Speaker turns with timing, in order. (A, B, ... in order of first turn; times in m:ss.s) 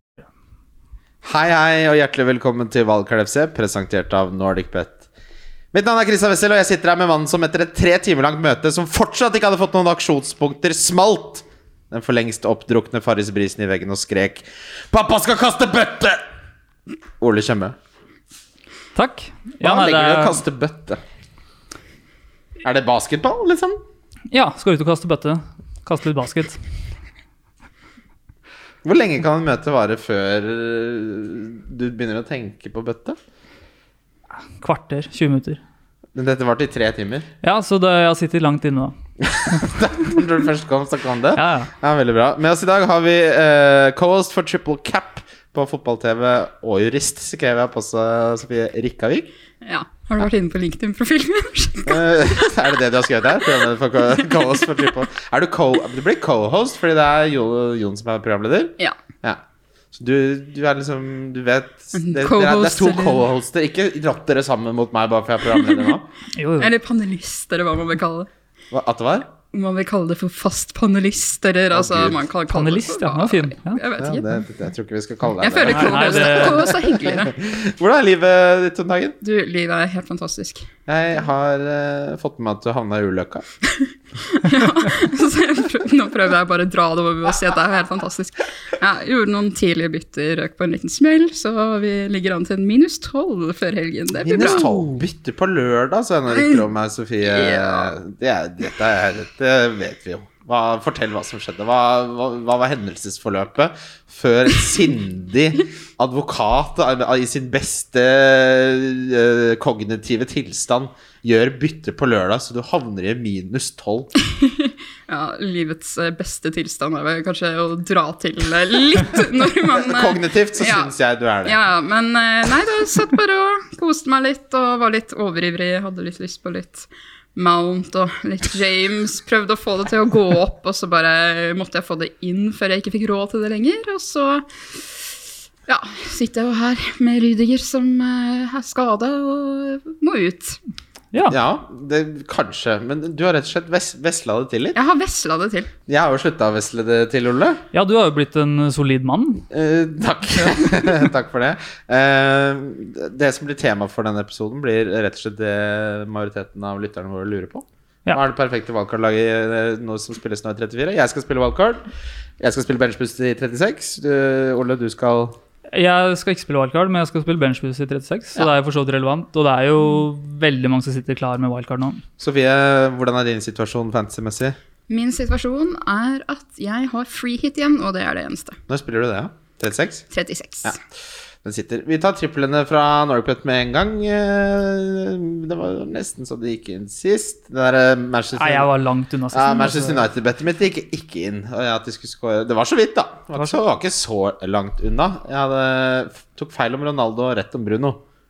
0:01.2-0:05.0 A
0:05.7-0:16.2 A
0:17.2-0:17.8 A
0:19.0-0:20.4 B
0:19.6-0:21.0 A
0:22.6-0:23.8 A
0:24.3-0:26.6 B
0:28.8-0:33.2 A
0:34.6-0:35.6 B
0:36.2-0:37.3 A
0:37.4-0:39.0 B
0:39.2-0:49.3 A
0:41.4-0:41.7 B
0:49.6-0:52.5 C
0:51.9-0:59.4 A
0:59.9-1:06.1 A
1:01.9-1:03.2 C
1:06.3-1:06.7 B
1:06.6-1:08.3 C
1:08.7-1:09.3 A
1:09.5-1:14.3 C
1:11.7-1:12.2 A
1:12.5-1:13.8 B
1:14.0-1:19.2 A
1:15.4-1:17.3 C
1:15.7-1:16.7 B
1:19.2-1:20.7 C
1:20.9-1:23.4 A
1:23.7-1:34.7 C
1:34.2-1:54.1 A
1:36.3-1:36.6 C
1:37.2-1:38.0 C
1:54.2-2:00.9 C
1:59.7-2:01.6 A
2:01.4-2:14.5 C
2:15.7-2:20.6 C
2:21.3-2:24.8 A
2:24.7-2:25.7 C
2:25.9-2:27.6 A
2:27.7-2:29.4 B
2:29.5-2:41.9 A
2:42.4-2:45.4 A
2:45.7-2:52.0 B
2:52.2-2:54.6 A
2:54.9-2:58.6 C
2:58.7-3:00.1 A
3:00.1-3:00.8 C
3:01.4-3:08.7 A
3:08.4-3:10.0 B
3:09.3-3:18.0 A